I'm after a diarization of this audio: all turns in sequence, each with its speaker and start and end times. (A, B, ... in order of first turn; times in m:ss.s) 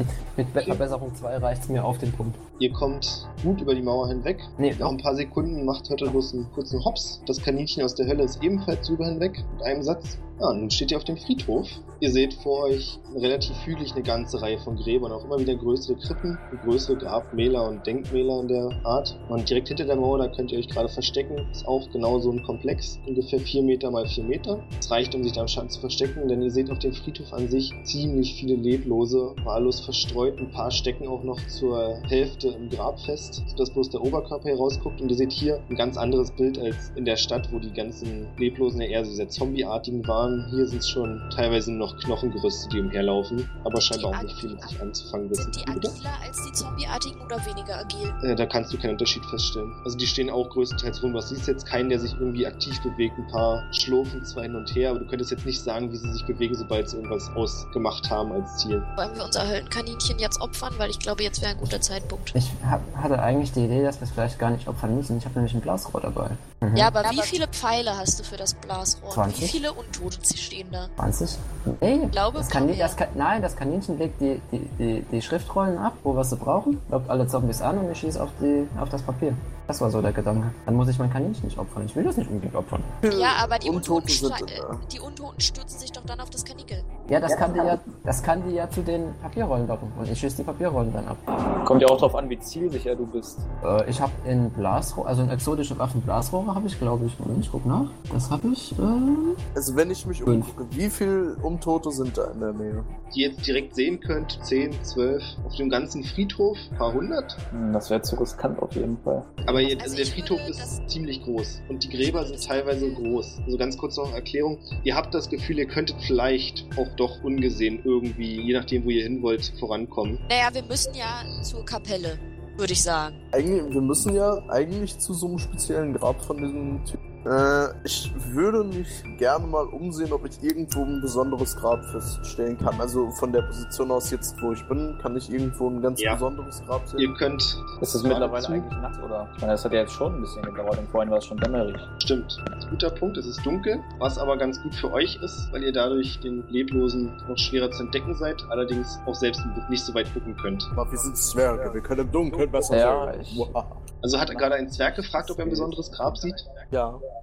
0:00.3-0:02.4 A
0:00.6-0:00.9 B
0:02.6-0:46.0 B
0:04.6-0:05.0 A
0:43.7-0:44.8 C
0:45.3-0:48.2 C
0:48.2-0:58.9 B
0:59.0-1:02.3 C
1:02.3-1:07.0 A
1:06.7-1:10.9 C
1:07.0-1:07.4 B
1:09.1-1:09.6 A
1:11.0-1:22.9 A
1:12.1-1:13.0 C
1:23.0-1:24.8 D
1:23.1-1:26.8 C
1:27.1-1:31.9 A
1:31.5-1:33.4 E
1:33.6-1:39.4 A
1:39.5-1:42.9 D
1:40.2-1:40.5 A
1:43.1-1:47.4 B
1:47.5-1:49.7 E
1:49.4-2:00.2 B
1:49.7-1:50.8 C
1:51.9-1:53.3 C
2:00.3-2:03.2 C
2:03.3-2:17.1 D
2:17.0-2:18.7 B
2:17.8-2:21.9 E
2:22.0-2:30.7 B
2:30.8-2:33.8 D
2:32.7-2:33.5 E
2:34.0-2:36.5 B
2:34.3-2:36.3 E
2:36.7-2:37.0 D